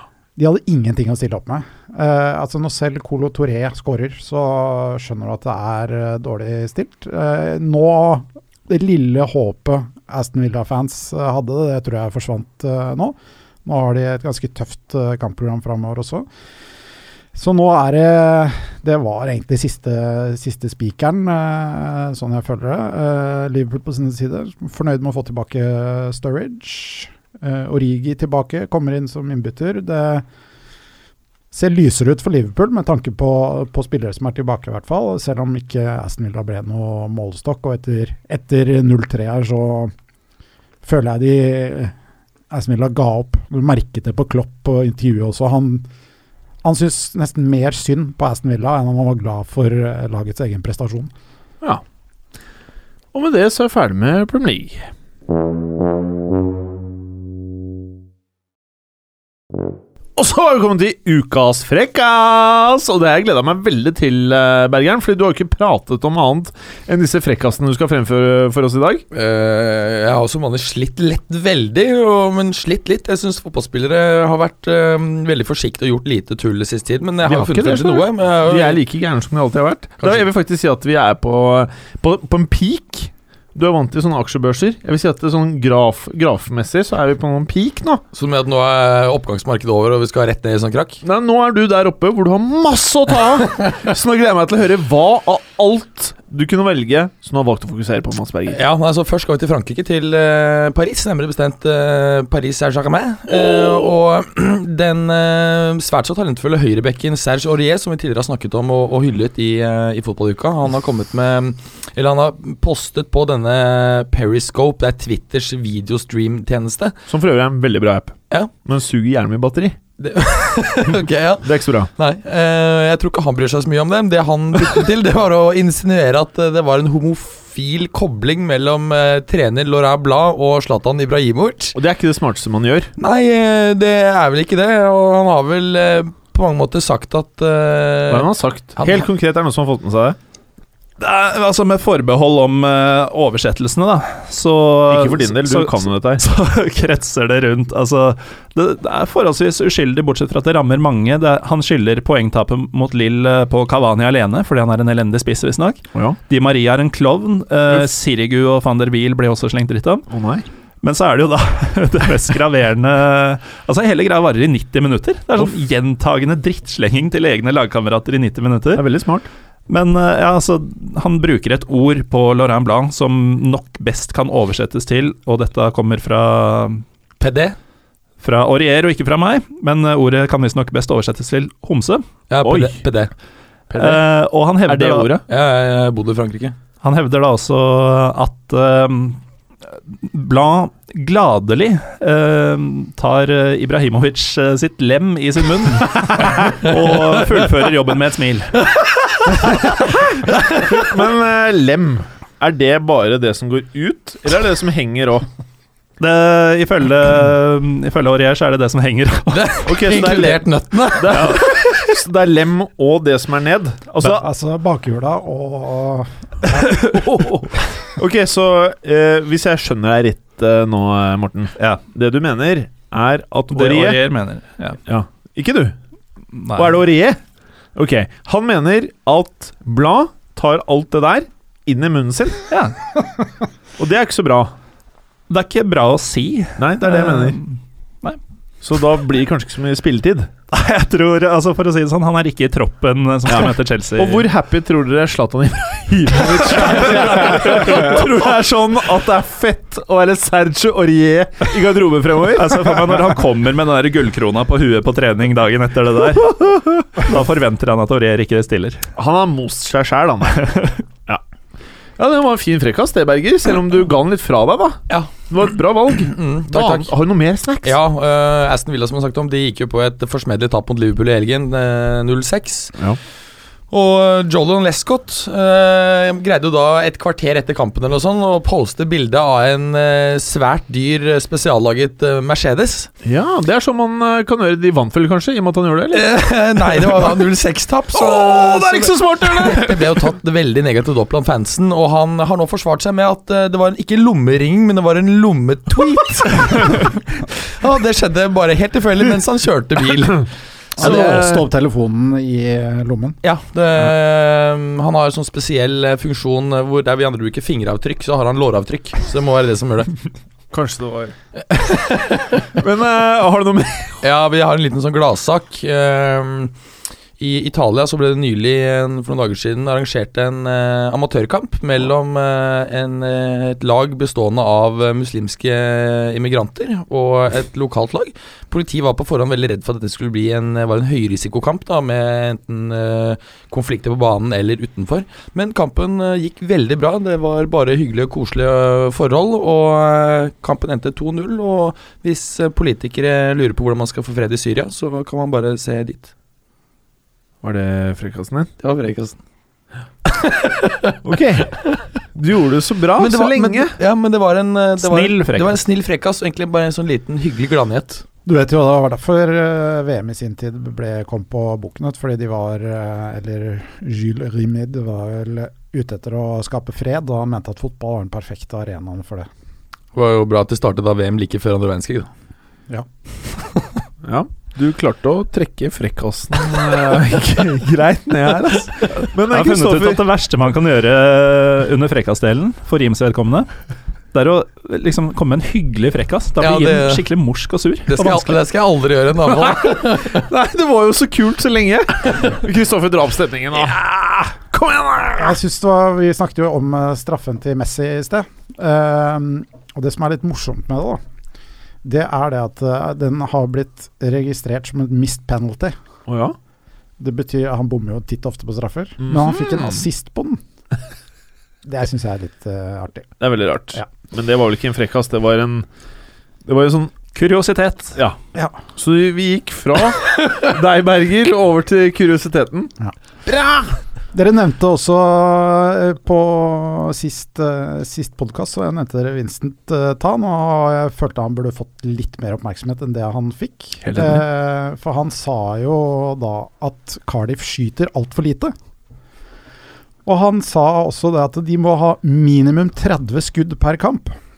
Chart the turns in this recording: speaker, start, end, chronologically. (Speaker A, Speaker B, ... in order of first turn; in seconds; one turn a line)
Speaker A: 0.4-16.3
Speaker A: 17.3-30.2
Speaker A: 31.5-39.9
Speaker A: 40.8-41.9
Speaker A: 42.5-45.9
Speaker A: 46.6-51.1
Speaker B: 53.1-54.9
Speaker B: 60.2-69.0
Speaker C: 69.1-78.8
Speaker B: 77.2-88.0
Speaker C: 80.0-80.3
Speaker C: 88.1-91.0
Speaker B: 91.0-98.6
Speaker C: 98.5-116.9
Speaker B: 117.1-119.8
Speaker C: 120.0-131.8
Speaker B: 121.4-121.9
Speaker B: 131.8-132.9
Speaker C: 133.0-139.1
Speaker B: 138.1-140.2
Speaker D: 141.0-160.1
Speaker B: 144.9-146.2
Speaker B: 160.1-160.5
Speaker D: 160.8-168.8
Speaker B: 168.8-169.3
Speaker D: 169.7-176.8
Speaker C: 177.2-177.6
Speaker D: 178.2-182.1
Speaker C: 182.3-183.1
Speaker B: 182.4-182.8
Speaker D: 183.8-185.2
Speaker B: 184.7-185.2
Speaker C: 185.3-186.6
Speaker D: 186.8-198.6
Speaker C: 199.2-199.6
Speaker C: 200.1-200.7
Speaker B: 200.5-205.3
Speaker D: 206.0-209.6
Speaker C: 209.3-212.0
Speaker B: 209.6-214.2
Speaker D: 213.9-214.2
Speaker A: 214.1-217.0
Speaker D: 216.6-217.5
Speaker B: 217.8-224.0
Speaker D: 223.5-224.8
Speaker B: 224.9-225.8
Speaker D: 226.3-226.8
Speaker B: 226.6-227.2
Speaker B: 227.8-232.4
Speaker D: 232.5-232.8
Speaker B: 233.8-234.5
Speaker D: 235.3-238.2
Speaker B: 236.6-237.4
Speaker B: 238.6-240.3
Speaker D: 240.5-244.3
Speaker B: 243.3-253.2
Speaker C: 246.3-247.8
Speaker D: 246.6-248.0
Speaker D: 252.3-258.9
Speaker B: 259.0-260.5
Speaker D: 260.4-260.8
Speaker B: 262.0-267.8
Speaker C: 264.9-266.9
Speaker C: 267.6-272.8
Speaker C: 273.7-282.9
Speaker B: 283.0-286.1
Speaker C: 285.9-301.4
Speaker B: 286.7-287.1
Speaker B: 287.9-290.1
Speaker A: 300.8-303.2
Speaker B: 300.8-301.4
Speaker C: 303.2-309.9
Speaker B: 310.5-311.1
Speaker C: 311.4-312.6
Speaker B: 312.6-314.0
Speaker C: 314.0-316.5
Speaker C: 317.2-346.1
Speaker B: 347.4-348.5
Speaker C: 348.6-349.2
Speaker C: 350.1-351.0
Speaker B: 351.0-351.6
Speaker B: 352.1-353.8
Speaker C: 353.0-358.0
Speaker D: 354.8-355.6
Speaker A: 358.3-369.3
Speaker C: 369.9-372.1
Speaker B: 374.0-380.0
Speaker D: 379.3-383.5
Speaker D: 384.1-388.4
Speaker C: 386.4-387.1
Speaker C: 387.9-390.3
Speaker B: 389.3-395.4
Speaker A: 395.2-401.0
Speaker A: 401.8-405.8
Speaker B: 406.1-406.4
Speaker A: 407.0-410.4
Speaker B: 409.0-409.8
Speaker A: 411.6-413.2
Speaker B: 413.2-415.7
Speaker B: 416.4-416.9
Speaker D: 417.1-418.0
Speaker A: 418.4-418.6
Speaker B: 418.7-422.7
Speaker B: 423.3-423.8
Speaker A: 424.1-438.5
Speaker B: 433.8-434.3
Speaker A: 440.1-444.1